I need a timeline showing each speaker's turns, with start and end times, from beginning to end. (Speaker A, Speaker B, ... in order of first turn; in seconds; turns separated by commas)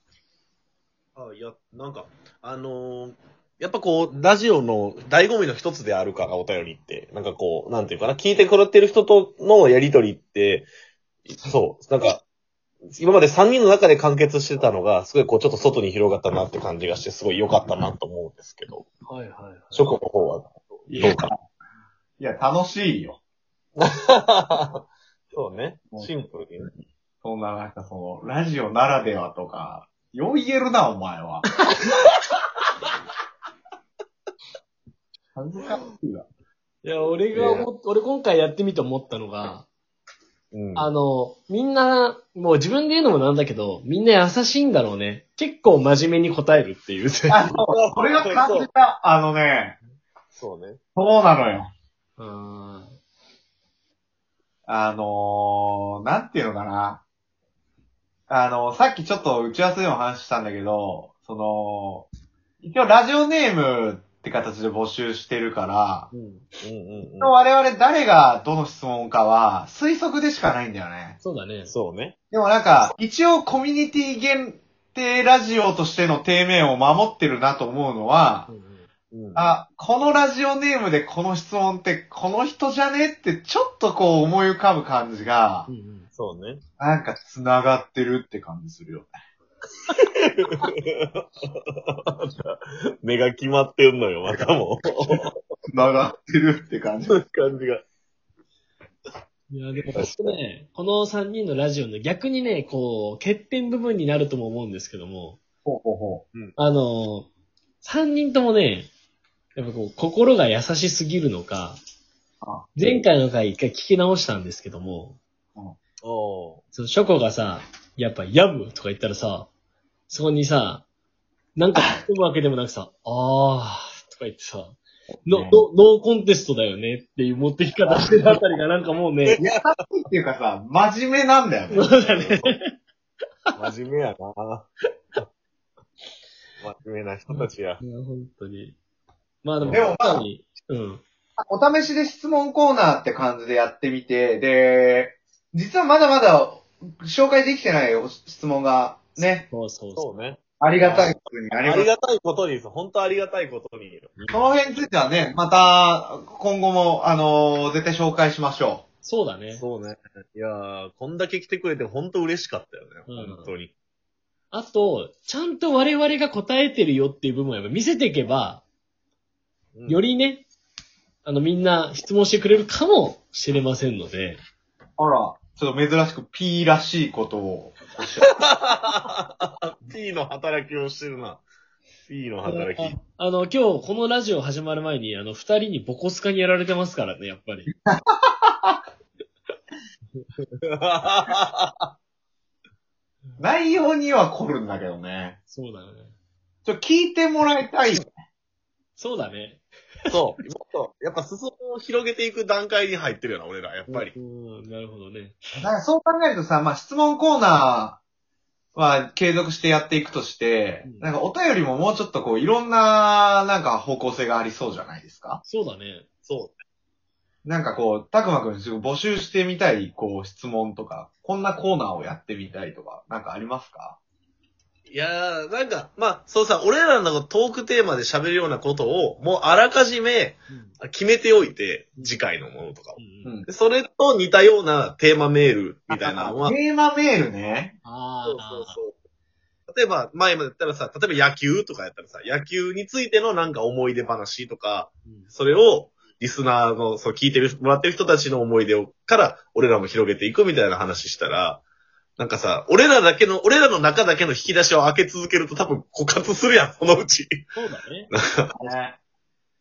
Speaker A: 1.2-10.7, Speaker A: 11.3-12.2, Speaker A: 12.9-18.9, Speaker B: 19.1-19.9, Speaker A: 19.7-21.3, Speaker C: 20.9-21.4, Speaker C: 22.2-23.2, Speaker A: 23.8-26.7, Speaker C: 27.2-31.4, Speaker C: 35.3-36.3, Speaker B: 36.8-39.7, Speaker A: 37.3-37.7, Speaker A: 40.5-40.9, Speaker B: 40.8-47.4, Speaker C: 47.3-49.8, Speaker A: 47.5-48.7, Speaker A: 50.3-50.8, Speaker C: 51.0-51.7, Speaker B: 52.2-53.0, Speaker C: 54.7-57.0, Speaker C: 58.3-62.1, Speaker C: 62.6-66.1, Speaker B: 66.1-66.5, Speaker A: 66.6-67.3, Speaker C: 67.2-71.2, Speaker B: 71.2-71.7, Speaker A: 71.7-72.2, Speaker C: 72.3-78.5, Speaker B: 78.5-78.9, Speaker A: 79.1-79.5, Speaker C: 79.3-85.7, Speaker B: 85.7-86.1, Speaker A: 86.1-86.6, Speaker C: 86.8-89.1, Speaker A: 89.9-91.2, Speaker A: 92.0-95.3, Speaker C: 95.7-97.2, Speaker A: 97.1-97.8, Speaker B: 99.5-105.4, Speaker A: 99.9-100.4, Speaker C: 105.6-106.2, Speaker B: 106.6-107.3, Speaker B: 107.8-108.9, Speaker B: 109.5-111.8, Speaker C: 112.4-112.7, Speaker B: 112.8-115.2, Speaker A: 116.0-116.6, Speaker B: 116.7-119.5, Speaker B: 120.1-120.8, Speaker B: 121.6-129.4, Speaker C: 125.2-125.6, Speaker C: 127.9-128.4, Speaker A: 129.3-129.9, Speaker C: 129.4-131.9, Speaker B: 131.7-132.7, Speaker A: 132.0-132.5, Speaker A: 133.6-134.7, Speaker A: 136.6-137.8, Speaker B: 137.3-138.8, Speaker B: 139.4-141.0, Speaker A: 139.6-139.9, Speaker C: 139.7-140.2, Speaker C: 141.4-149.5, Speaker B: 149.2-150.1, Speaker A: 149.9-154.1, Speaker C: 150.6-151.9, Speaker B: 154.2-154.5, Speaker C: 154.3-158.8, Speaker B: 159.0-159.6, Speaker A: 159.5-163.7, Speaker B: 163.1-163.5, Speaker B: 164.5-168.6, Speaker A: 169.8-170.0, Speaker B: 169.9-170.4, Speaker B: 171.2-174.4, Speaker C: 175.0-178.3, Speaker A: 178.4-181.4, Speaker A: 182.1-183.0, Speaker B: 182.4-187.7, Speaker C: 187.8-188.8, Speaker A: 190.7-191.9, Speaker C: 193.4-195.4, Speaker B: 195.5-196.1, Speaker C: 196.7-198.1, Speaker B: 199.0-199.6, Speaker A: 200.1-204.1, Speaker B: 203.9-205.4, Speaker C: 205.6-208.0, Speaker C: 208.8-215.4, Speaker B: 210.8-211.1, Speaker B: 215.4-216.1, Speaker A: 216.2-216.6, Speaker C: 217.4-224.0, Speaker A: 224.9-236.6, Speaker B: 230.5-230.8, Speaker B: 233.0-233.3, Speaker C: 235.9-237.8, Speaker B: 237.8-238.8, Speaker A: 238.2-238.9, Speaker A: 239.7-251.6, Speaker B: 245.0-245.3, Speaker A: 252.2-257.4, Speaker B: 257.6-258.1, Speaker A: 258.4-258.7, Speaker C: 258.6-259.0